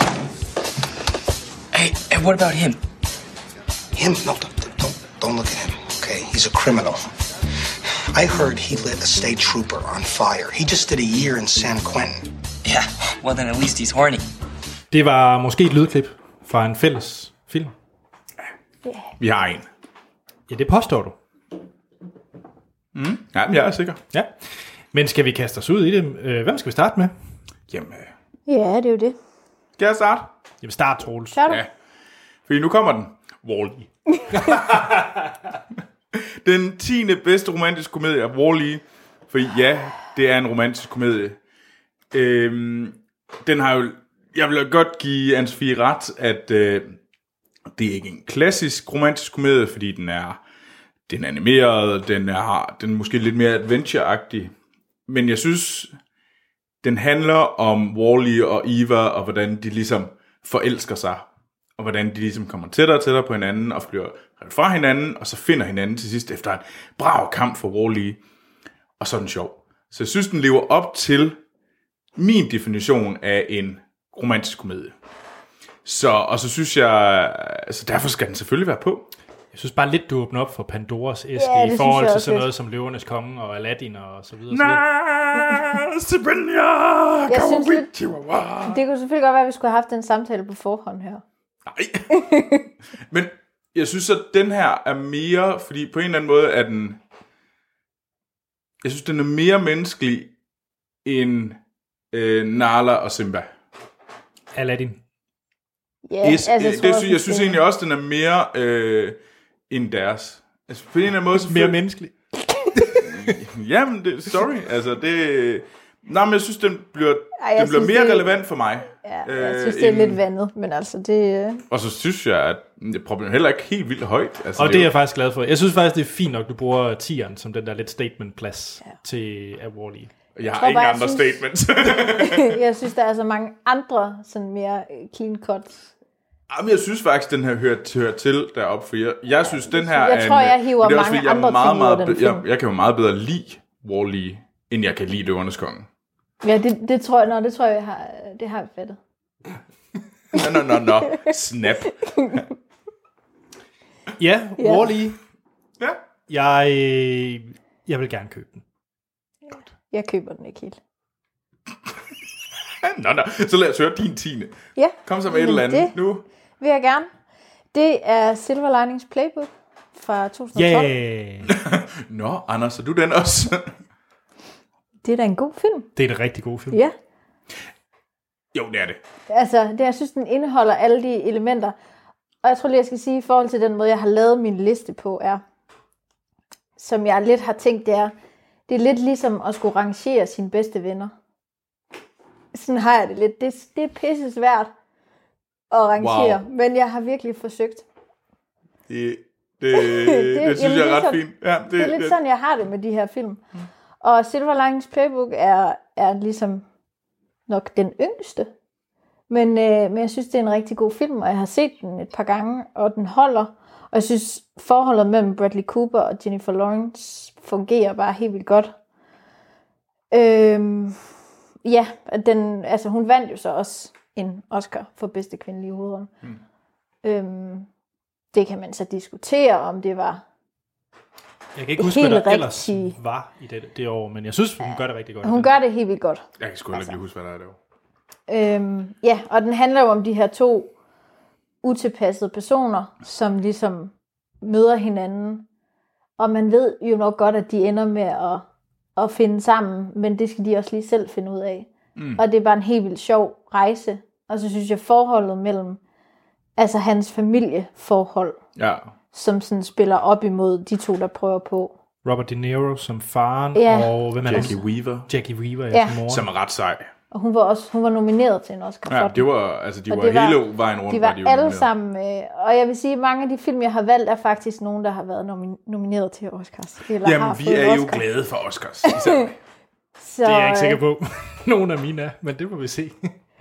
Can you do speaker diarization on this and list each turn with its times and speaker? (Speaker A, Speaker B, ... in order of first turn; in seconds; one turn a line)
Speaker A: 1.7-2.8
Speaker B: 3.9-7.1
Speaker B: 8.1-12.4
Speaker A: 12.6-14.2
Speaker C: 14.9-17.7
Speaker D: 18.9-19.1
Speaker E: 19.2-19.7
Speaker C: 20.5-21.2
Speaker E: 22.9-24.0
Speaker C: 24.9-27.1
Speaker E: 27.7-28.1
Speaker D: 28.5-29.2
Speaker E: 29.8-30.3
Speaker C: 30.6-31.4
Speaker D: 31.3-31.6
Speaker E: 32.5-33.9
Speaker C: 34.4-35.1
Speaker E: 36.1-41.4
Speaker E: 42.1-47.0
Speaker E: 47.7-50.4
Speaker E: 51.1-54.5
Speaker E: 55.1-55.9
Speaker E: 56.8-61.3
Speaker E: 61.8-68.2
Speaker E: 69.0-71.4
Speaker E: 72.2-74.9
Speaker E: 75.8-79.1
Speaker C: 79.5-84.8
Speaker D: 81.4-82.5
Speaker E: 84.5-88.8
Speaker D: 87.3-87.9
Speaker D: 88.6-91.2
Speaker E: 91.7-92.1
Speaker D: 92.1-92.7
Speaker E: 93.1-97.0
Speaker E: 98.8-100.3
Speaker E: 101.0-101.6
Speaker E: 102.1-103.5
Speaker C: 104.5-105.0
Speaker D: 106.1-107.6
Speaker E: 106.2-109.2
Speaker E: 109.7-111.8
Speaker C: 111.4-112.1
Speaker C: 112.7-113.4
Speaker E: 113.0-120.2
Speaker D: 117.4-118.3
Speaker D: 119.0-121.6
Speaker E: 121.7-124.9
Speaker C: 124.6-130.1
Speaker E: 130.4-132.6
Speaker D: 130.6-131.4
Speaker D: 132.2-135.9
Speaker E: 136.5-145.9
Speaker D: 139.5-142.4
Speaker D: 146.4-149.0
Speaker E: 150.3-152.4
Speaker D: 151.9-152.4
Speaker C: 154.2-155.2
Speaker C: 156.3-158.6
Speaker D: 159.5-160.8
Speaker E: 162.8-166.2
Speaker D: 164.8-165.9
Speaker D: 166.6-167.1
Speaker D: 167.7-170.9
Speaker C: 170.6-171.5
Speaker E: 171.4-173.7
Speaker D: 175.0-175.9
Speaker C: 175.9-176.8
Speaker E: 178.5-179.0
Speaker D: 179.3-181.7
Speaker D: 182.4-185.4
Speaker D: 186.8-188.1
Speaker D: 188.7-191.1
Speaker D: 192.5-194.7
Speaker D: 195.7-197.8
Speaker E: 196.0-196.4
Speaker E: 198.9-202.2
Speaker D: 199.7-203.4
Speaker D: 204.0-206.6
Speaker D: 207.5-208.5
Speaker D: 209.3-218.7
Speaker D: 220.1-221.0
Speaker D: 221.6-226.1
Speaker D: 227.0-227.7
Speaker D: 228.3-230.2
Speaker C: 231.6-235.6
Speaker D: 231.8-232.9
Speaker D: 234.6-236.9
Speaker E: 236.4-237.6
Speaker D: 238.3-240.7
Speaker D: 241.6-245.4
Speaker D: 246.2-248.4
Speaker D: 248.9-255.8
Speaker E: 251.9-252.2
Speaker D: 256.6-258.4
Speaker E: 258.6-258.9
Speaker D: 259.1-261.7
Speaker C: 262.1-266.3
Speaker D: 263.6-264.5
Speaker E: 264.2-265.1
Speaker E: 266.1-266.9
Speaker D: 267.1-269.2
Speaker E: 268.9-271.7
Speaker D: 269.9-278.1
Speaker E: 277.0-279.4
Speaker D: 278.9-279.2
Speaker D: 280.0-280.8
Speaker C: 280.2-283.1